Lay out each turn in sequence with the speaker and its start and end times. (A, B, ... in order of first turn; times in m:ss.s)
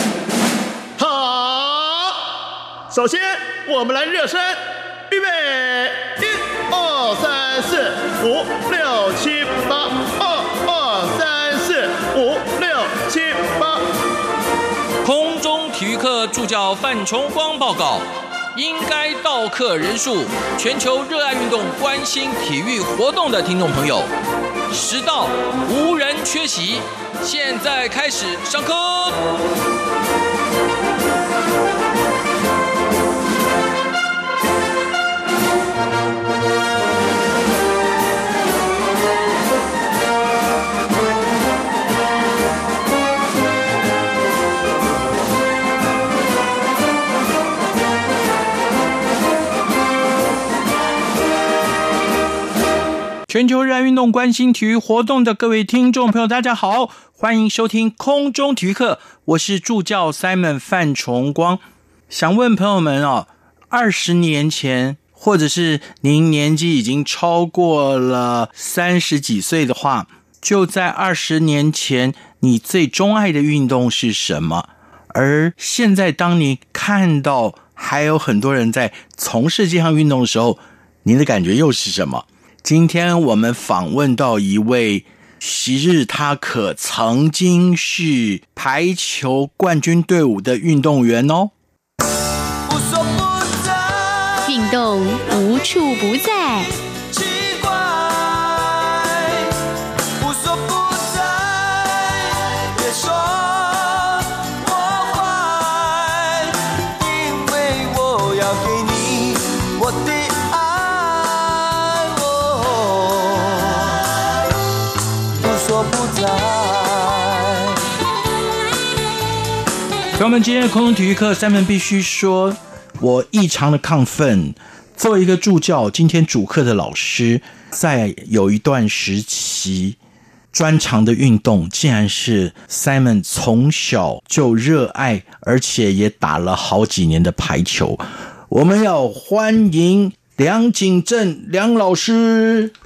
0:01.0-0:02.2 A
0:02.9-0:13.9 A
0:15.0-0:24.1 B
0:24.7-0:29.2 B
0:53.3-1:31.5 C
1:32.7-1:34.7 D
1:34.4-1:36.7 E
1:37.1-1:39.5 D
1:40.2-1:54.2 D
1:55.4-1:57.8 D
2:00.1-2:10.0 C
2:10.5-2:22.7 C